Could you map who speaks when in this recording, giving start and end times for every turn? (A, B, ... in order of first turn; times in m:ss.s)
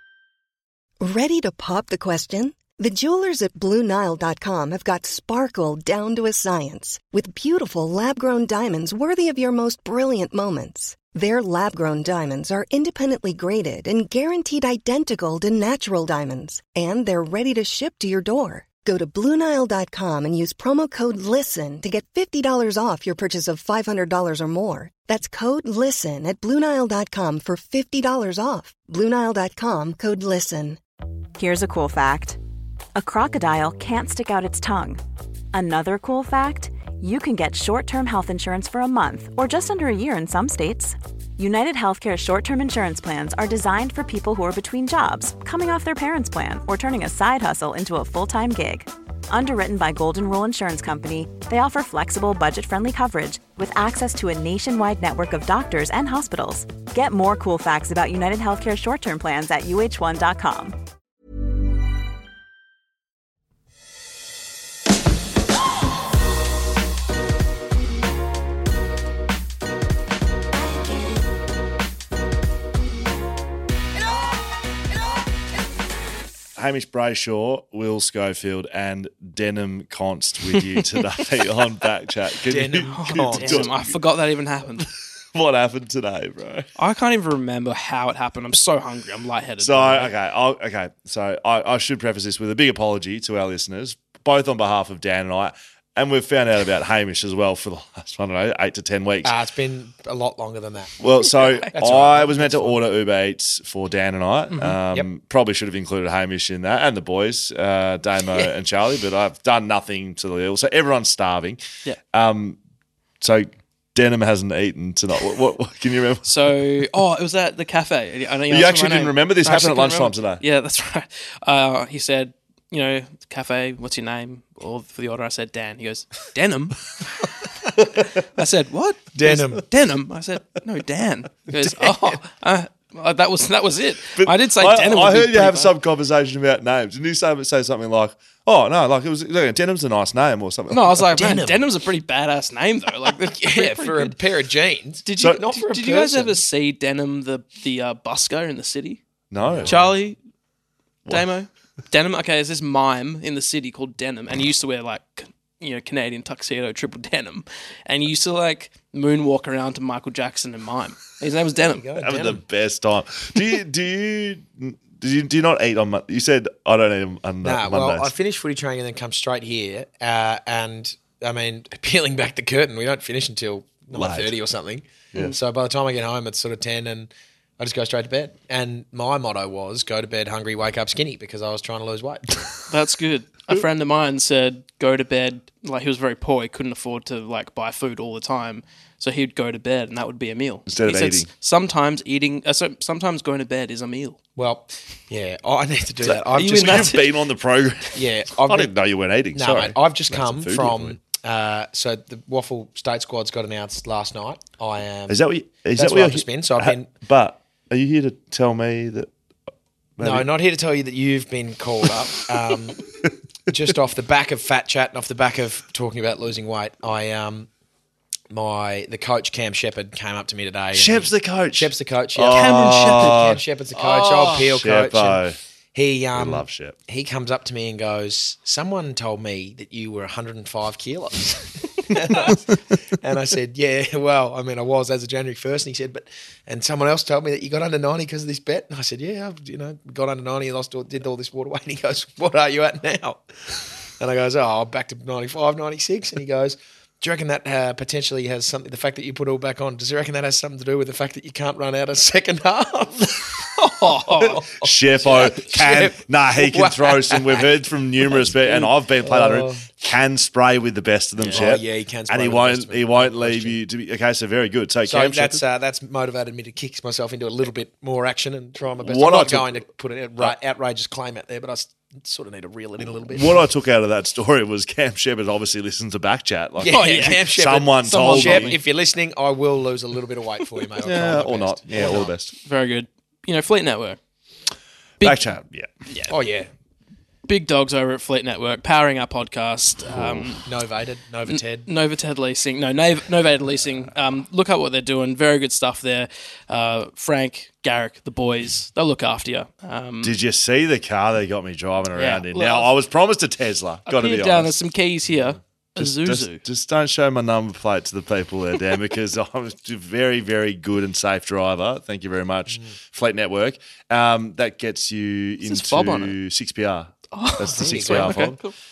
0:01.0-0:30.8 A
0:31.4-0:32.4 B
0:32.9-0:35.0 B
0:35.5-1:00.8 B
1:16.6-1:24.0 C
1:22.5-1:23.7 D
1:22.9-1:24.9 E
1:25.3-1:26.7 C
1:26.8-1:30.1 E
1:29.6-1:39.3 C
1:39.2-1:40.9 D
1:41.0-1:51.6 C
1:41.6-1:42.8 D
1:44.5-1:44.8 E
1:52.1-1:52.6 C
1:53.2-1:56.5 C
1:56.2-2:06.8 E
1:58.5-2:00.4 C
2:08.3-2:15.7 E
2:09.1-2:09.6 D
2:14.2-2:21.0 C
2:20.7-2:24.2 E
2:21.1-2:21.6 D
2:23.4-2:26.4 D
2:25.0-2:29.0 E
2:29.3-2:29.9 C
2:29.4-2:29.8 D
2:29.6-2:30.2 E
2:31.1-2:41.9 E
2:41.6-2:42.4 D
2:42.0-2:48.1 C
2:47.4-3:02.4 D
2:53.9-2:54.3 C
3:02.7-3:14.2 E
3:10.7-3:11.3 C
3:14.4-3:17.0 D
3:16.0-3:21.0 C
3:16.3-3:17.1 E
3:17.9-3:18.7 D
3:19.4-3:25.2 D
3:25.1-3:29.1 C
3:25.8-3:26.9 D
3:30.0-3:30.2 C
3:30.0-3:32.9 D
3:33.5-3:37.5 D
3:38.3-3:45.2 D
3:40.7-3:43.4 C
3:42.3-3:43.2 E
3:43.7-3:44.5 E
3:44.5-3:45.4 C
3:45.7-4:13.5 D
3:46.1-3:46.8 C
4:13.6-4:14.4 E
4:14.0-4:17.5 D
4:14.6-4:25.4 C
4:18.4-4:18.7 E
4:19.0-4:19.7 D
4:21.2-4:21.4 E
4:21.2-4:23.6 D
4:24.8-4:33.4 D
4:28.8-4:29.6 C
4:33.1-4:38.6 C
4:36.6-4:42.1 D
4:36.6-4:37.3 E
4:37.8-4:38.6 E
4:40.8-4:42.3 C
4:42.4-4:44.0 E
4:45.0-4:45.7 C
4:45.9-4:46.1 E
4:46.1-4:46.5 D
4:47.3-4:50.4 E
4:49.9-4:50.3 C
4:50.5-4:51.7 D
4:51.3-5:00.1 E
5:00.0-5:04.5 C
5:01.9-5:02.7 E
5:03.9-5:06.4 E
5:05.8-5:18.4 C
5:15.4-5:16.2 E
5:17.1-5:18.5 E
5:17.5-5:18.3 D